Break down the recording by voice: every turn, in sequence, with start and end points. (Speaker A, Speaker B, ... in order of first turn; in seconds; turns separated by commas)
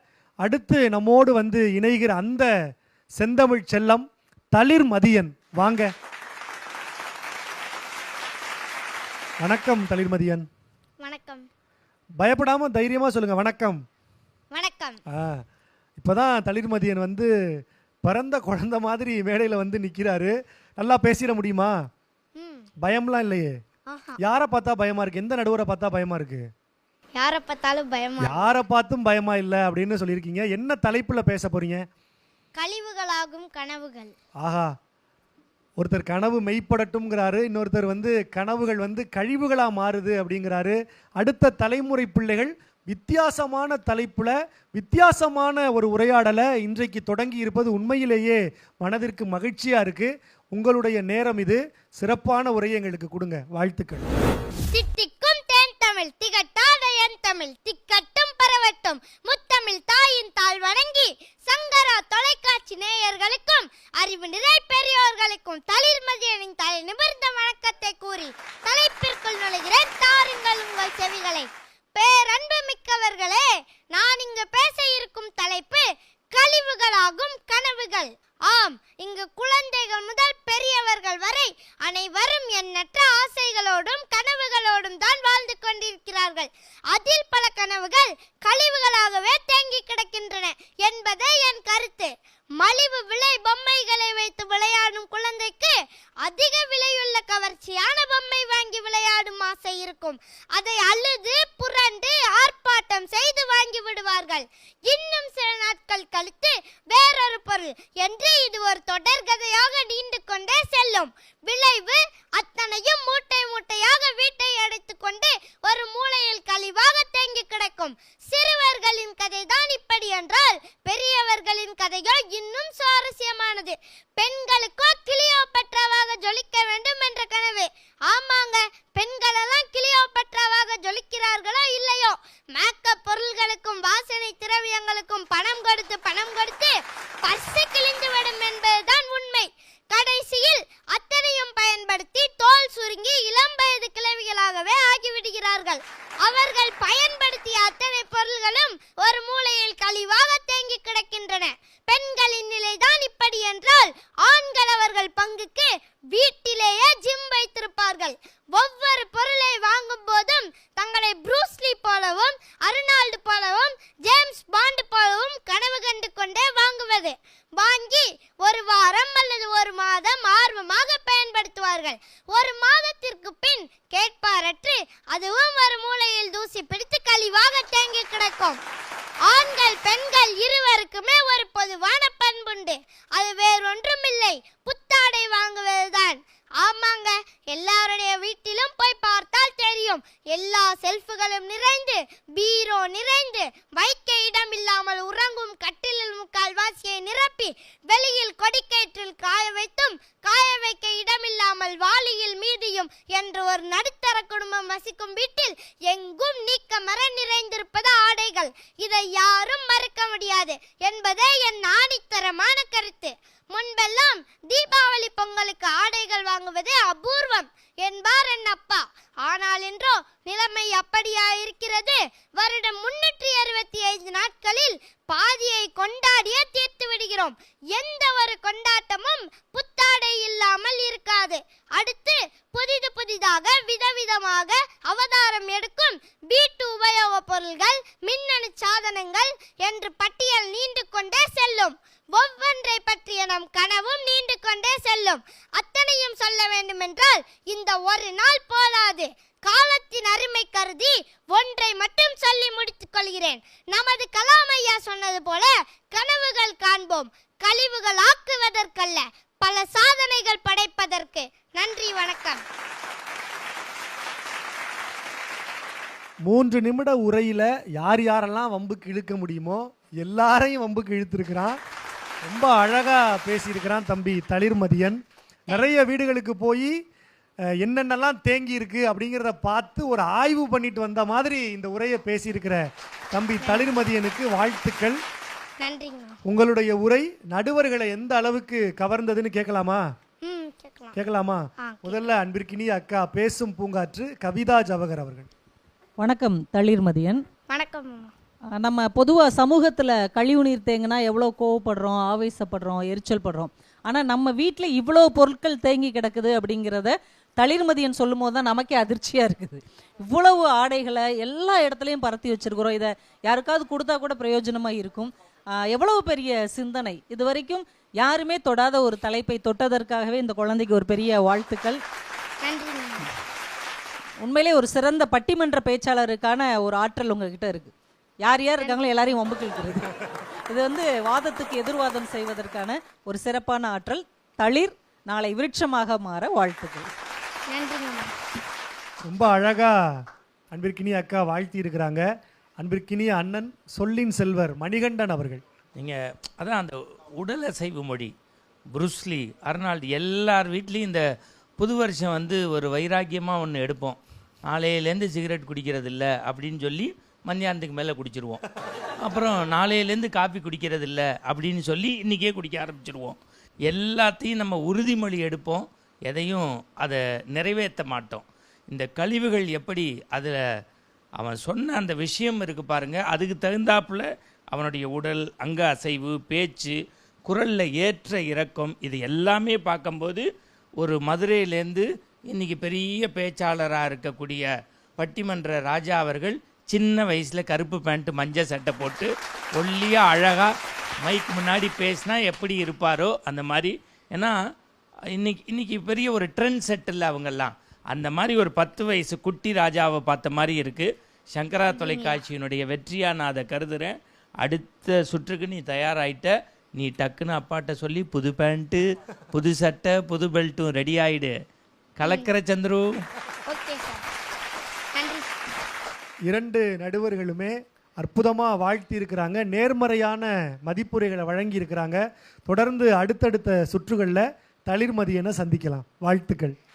Speaker A: 0.4-2.5, Speaker A: 3.2-5.9, Speaker A: 9.4-10.4, Speaker B: 11.0-11.4, Speaker A: 12.2-13.8, Speaker B: 14.5-15.0, Speaker A: 15.1-15.4, Speaker A: 16.0-17.3, Speaker A: 18.0-21.7, Speaker B: 22.4-22.7, Speaker A: 22.8-23.5, Speaker B: 23.9-24.2, Speaker A: 24.2-26.4, Speaker B: 27.1-28.4, Speaker A: 28.2-31.8, Speaker B: 32.5-34.1, Speaker A: 34.4-34.7, Speaker A: 35.8-54.1, Speaker B: 54.7-178.6, Speaker B: 179.2-262.4, Speaker A: 266.2-271.6, Speaker A: 272.2-275.0, Speaker A: 275.5-276.7, Speaker A: 277.6-282.6, Speaker A: 283.1-285.0, Speaker B: 283.4-283.7, Speaker B: 285.6-286.1, Speaker A: 286.2-289.8, Speaker B: 290.2-290.9, Speaker A: 290.9-295.3, Speaker B: 291.6-292.1, Speaker C: 296.0-297.2, Speaker B: 297.5-298.1, Speaker C: 298.6-321.8, Speaker B: 322.4-323.1, Speaker C: 324.2-329.9, Speaker C: 330.5-336.9, Speaker B: 337.5-338.1, Speaker A: 339.1-339.7, Speaker A: 340.5-342.1, Speaker A: 342.6-345.4, Speaker D: 345.8-348.1, Speaker D: 348.7-351.0, Speaker D: 351.6-358.4, Speaker D: 359.0-370.4, Speaker D: 371.2-376.7, Speaker D: 377.2-380.2, Speaker D: 380.8-390.5, Speaker D: 391.0-394.3, Speaker D: 395.1-408.8, Speaker B: 401.6-402.2, Speaker D: 409.3-411.3, Speaker D: 412.0-413.0, Speaker B: 412.0-412.3, Speaker B: 413.4-414.0, Speaker B: 414.9-415.3, Speaker A: 416.3-426.5